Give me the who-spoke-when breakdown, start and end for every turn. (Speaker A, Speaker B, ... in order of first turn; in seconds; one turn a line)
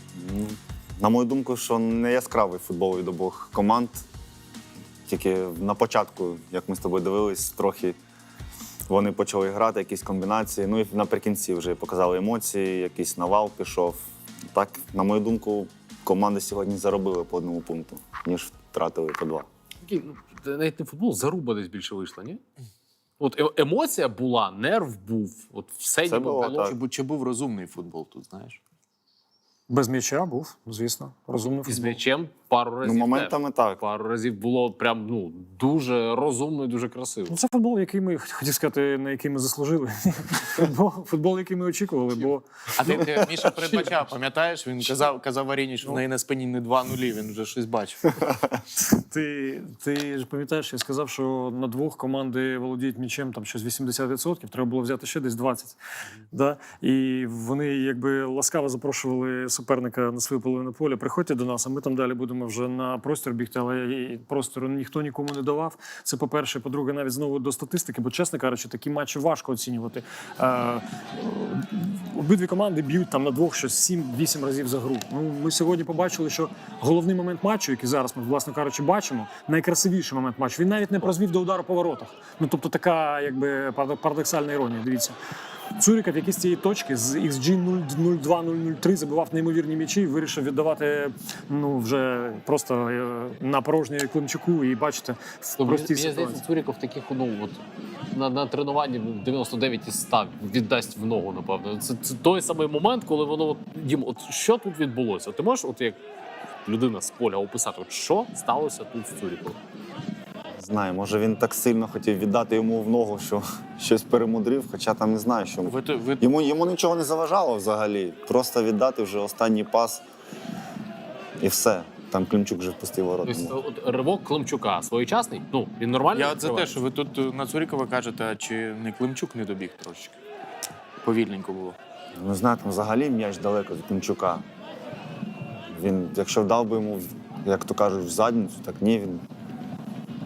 Speaker A: 0.1-4.0
Speaker A: 5.1-8.0
Speaker A: 8.9-14.0
Speaker A: 14.5-19.5
Speaker B: 19.8-22.4
Speaker B: 23.2-26.7
Speaker A: 26.1-26.8
Speaker C: 26.6-28.6
Speaker D: 29.7-32.0
Speaker B: 31.6-37.4
Speaker A: 32.8-33.8
Speaker D: 37.3-42.4
Speaker C: 42.8-48.4
Speaker D: 48.8-55.8
Speaker D: 56.3-85.2
Speaker D: 85.8-96.4
Speaker B: 95.6-106.0
Speaker B: 106.6-109.6
Speaker A: 110.5-120.0
Speaker C: 115.6-116.3
Speaker A: 121.4-123.5
Speaker B: 123.2-126.8
Speaker C: 126.1-130.2
Speaker C: 131.0-131.8
Speaker A: 132.2-134.4
Speaker A: 135.7-139.2